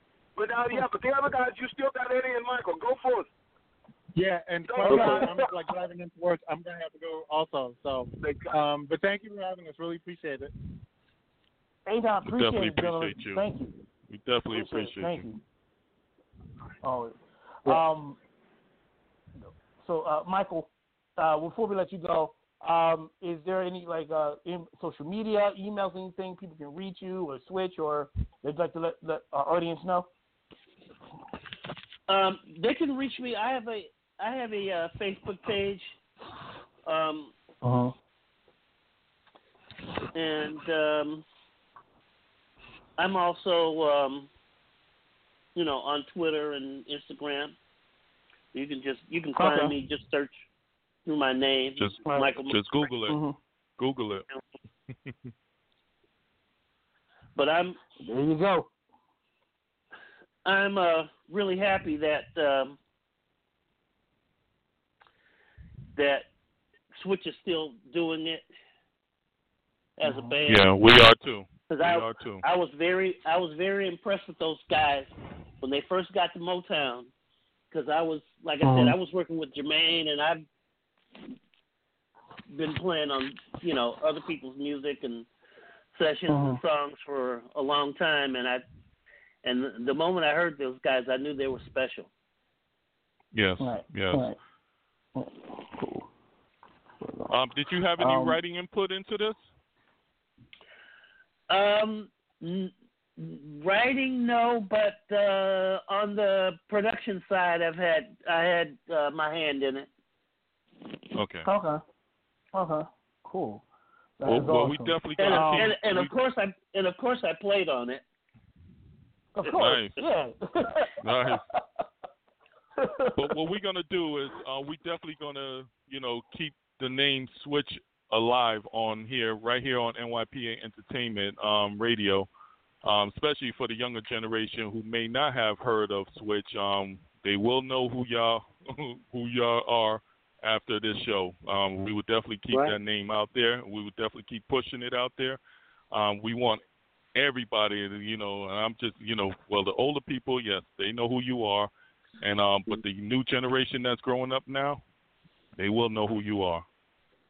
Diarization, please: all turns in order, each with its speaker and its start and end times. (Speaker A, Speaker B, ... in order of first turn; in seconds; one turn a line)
Speaker A: 0.4-3.3
Speaker B: 4.2-10.5
Speaker A: 4.6-5.5
Speaker C: 4.9-5.3
Speaker A: 8.2-8.6
Speaker C: 11.9-13.8
Speaker D: 12.2-13.5
Speaker D: 14.1-15.3
Speaker C: 14.5-15.4
Speaker C: 16.8-18.2
Speaker C: 19.4-30.1
Speaker E: 32.1-36.0
Speaker E: 36.9-37.3
Speaker C: 37.6-37.9
Speaker E: 40.1-41.2
Speaker E: 43.0-44.3
Speaker E: 45.5-47.6
Speaker E: 48.5-50.4
Speaker C: 49.4-49.8
Speaker E: 51.1-52.8
Speaker D: 51.8-53.2
Speaker C: 52.0-52.3
Speaker C: 53.1-53.4
Speaker D: 53.8-54.3
Speaker D: 54.9-55.3
Speaker E: 57.4-57.8
Speaker C: 58.0-58.7
Speaker E: 60.5-62.8
Speaker E: 65.9-66.3
Speaker E: 67.0-68.5
Speaker E: 70.0-70.7
Speaker C: 70.0-70.4
Speaker D: 70.5-72.4
Speaker E: 71.7-75.1
Speaker E: 75.6-77.1
Speaker E: 77.7-80.5
Speaker C: 78.6-79.0
Speaker E: 82.5-85.3
Speaker E: 85.9-88.7
Speaker C: 86.3-86.6
Speaker E: 89.4-92.1
Speaker D: 93.3-94.3
Speaker C: 93.6-94.4
Speaker C: 95.2-96.0
Speaker D: 97.3-99.5
Speaker C: 98.0-98.4
Speaker E: 101.5-109.9
Speaker D: 111.2-111.5
Speaker C: 111.5-111.8
Speaker C: 112.5-113.6
Speaker C: 114.2-115.8
Speaker D: 114.3-116.2
Speaker E: 115.2-118.0
Speaker C: 119.4-120.9
Speaker D: 119.5-120.0
Speaker D: 121.0-121.4
Speaker C: 122.8-123.2
Speaker D: 123.2-132.3
Speaker D: 132.8-145.4
Speaker E: 142.5-142.8
Speaker D: 145.9-146.6
Speaker D: 147.2-154.8
Speaker D: 155.6-156.7